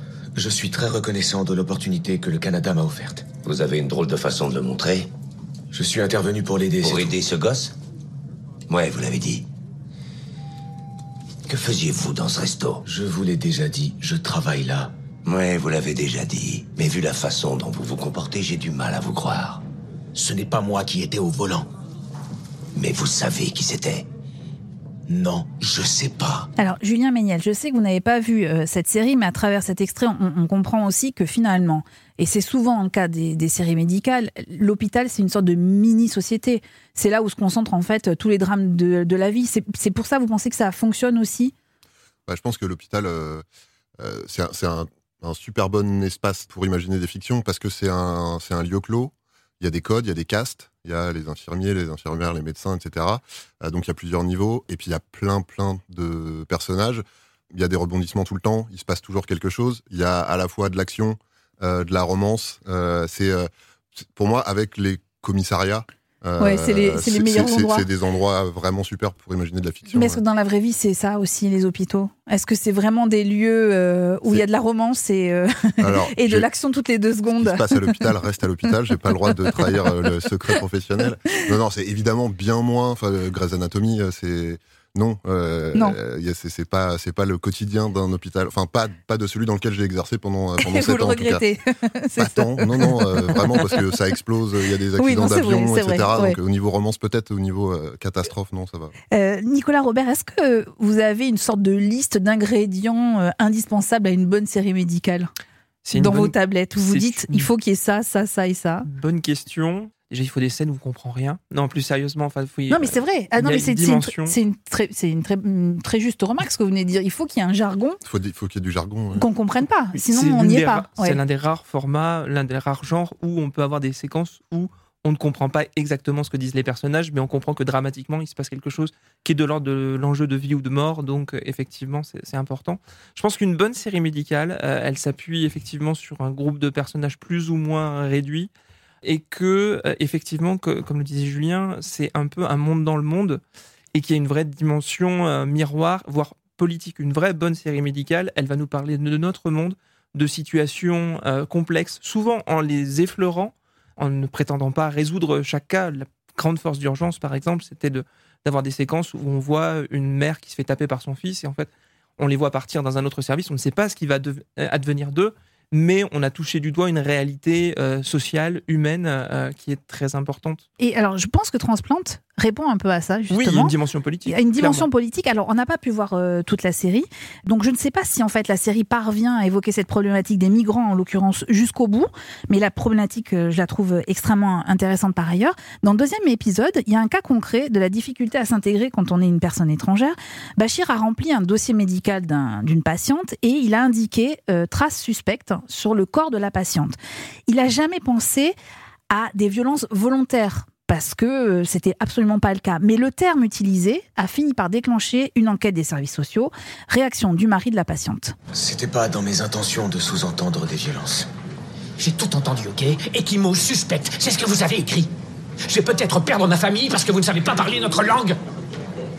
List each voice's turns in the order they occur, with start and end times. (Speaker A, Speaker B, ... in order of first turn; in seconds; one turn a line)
Speaker A: 0.3-3.3
Speaker B: 3.4-5.1
Speaker A: 5.7-7.1
Speaker B: 6.8-7.8
Speaker B: 8.7-9.5
Speaker B: 11.5-12.8
Speaker A: 12.8-14.9
Speaker B: 15.2-19.6
Speaker A: 20.1-21.7
Speaker B: 22.8-24.1
Speaker A: 25.1-26.5
Speaker C: 26.6-41.5
Speaker D: 42.3-43.4
Speaker D: 44.0-63.5
Speaker D: 64.0-70.2
Speaker C: 66.4-67.9
Speaker C: 69.9-78.0
Speaker D: 75.8-76.5
Speaker D: 77.3-91.4
Speaker C: 90.6-93.7
Speaker D: 92.2-98.9
Speaker C: 95.0-96.4
Speaker C: 99.1-105.3
Speaker E: 105.8-107.5
Speaker C: 105.9-108.9
Speaker E: 108.8-114.4
Speaker C: 112.7-118.0
Speaker D: 118.0-119.3
Speaker C: 119.2-121.2
Speaker E: 120.0-138.5
Speaker E: 139.0-143.4
Speaker E: 143.9-170.7
Speaker C: 170.8-173.7
Speaker E: 173.3-174.9
Speaker C: 174.3-196.9
Speaker C: 197.5-198.6
Speaker C: 199.1-208.3
Speaker A: 208.5-211.3
Speaker F: 212.0-215.1
Speaker F: 215.7-218.4